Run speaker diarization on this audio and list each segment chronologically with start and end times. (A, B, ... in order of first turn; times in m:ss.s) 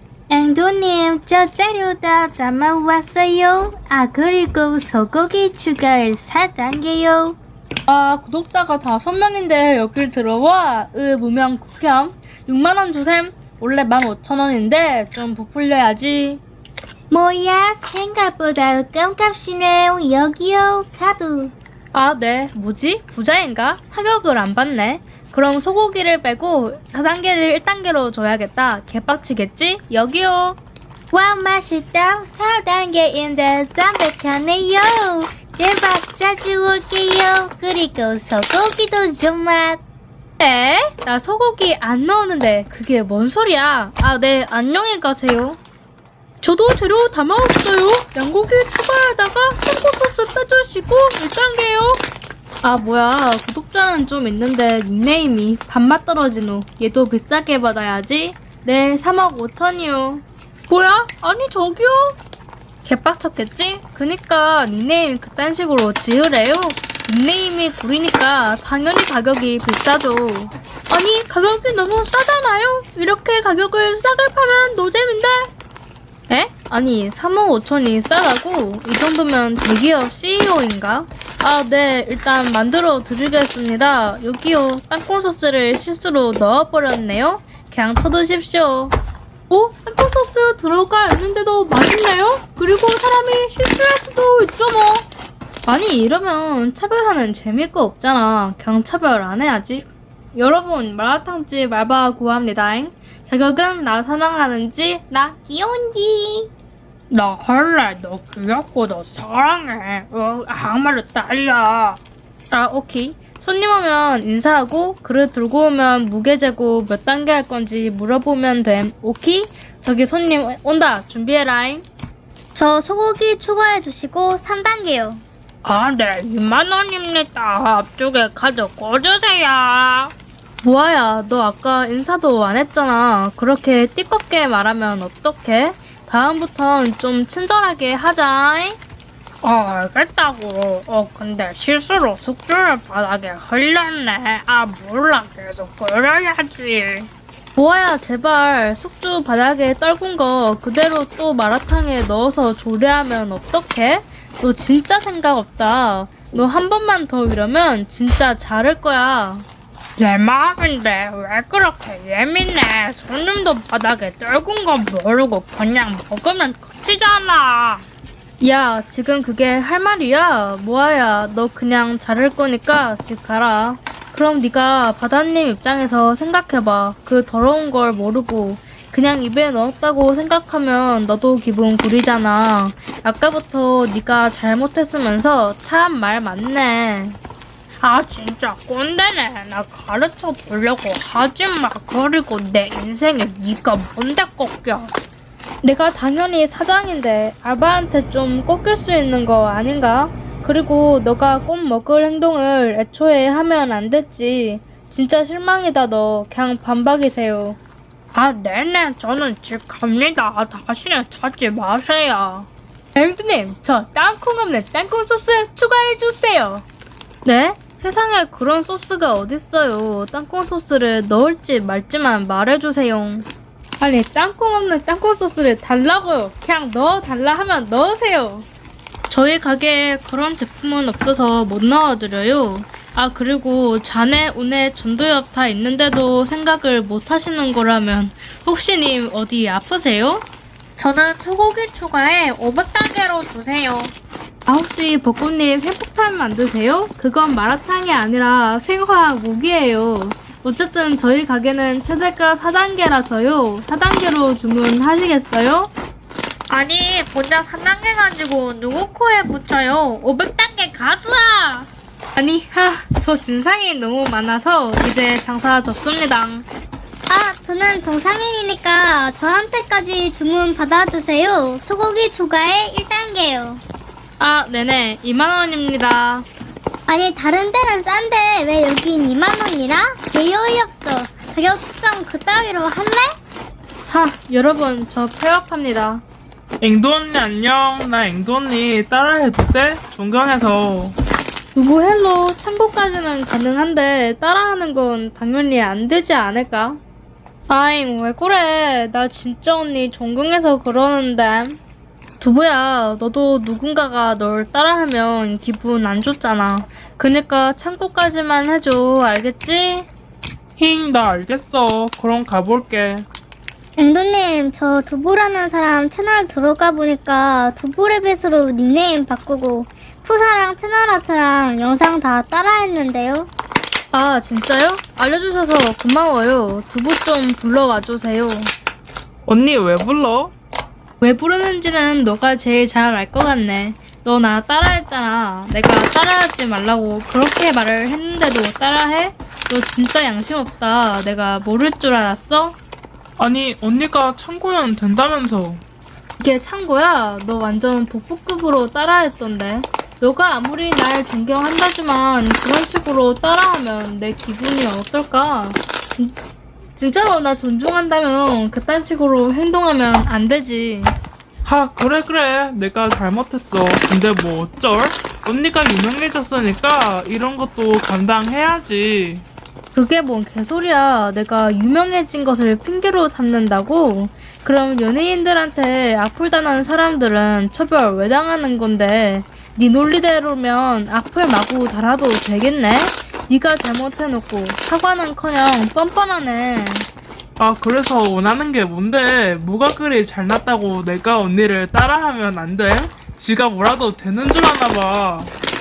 0:00.3-0:07.3 A
0:07.9-0:16.4 A
0:17.1-0:21.5 B
0:21.9-0:30.6 A
0:34.2-0:34.8 B
0:35.5-0:39.8 B
0:40.4-0:45.6 A
0:46.4-0:52.0 A
0:52.6-1:02.2 A
1:02.8-1:15.5 A
1:16.3-1:29.0 A
1:29.5-1:35.1 A
1:35.6-1:46.4 A
1:47.1-1:52.0 A
1:52.5-2:01.8 A
2:02.5-2:05.2 B
2:05.6-2:18.8 A
2:19.4-2:47.8 A
2:48.4-3:07.2 A
3:07.8-3:14.9 A
3:15.6-3:27.6 A
3:28.1-3:36.6 A
3:37.2-3:43.3 A
3:43.8-3:48.5 A
3:49.1-4:00.3 A
4:00.8-4:03.9 A
4:04.5-4:15.7 A
4:16.5-4:26.4 A
4:27.1-4:33.6 B
4:34.2-4:36.3 A
4:36.9-4:43.2 B
4:43.9-4:46.0 A
4:46.6-4:51.0 C
4:51.5-4:56.8 A
4:57.5-5:01.6 A
5:02.2-5:09.9 A
5:10.6-5:13.1 C
5:13.8-5:23.3 B
5:23.9-5:28.5 A
5:29.3-5:30.3 C
5:31.0-5:42.6 A
5:43.2-5:45.6 C
5:46.2-5:56.2 A
5:56.8-6:01.0 A
6:01.4-6:09.2 C
6:09.7-6:26.9 A
6:27.4-6:35.3 C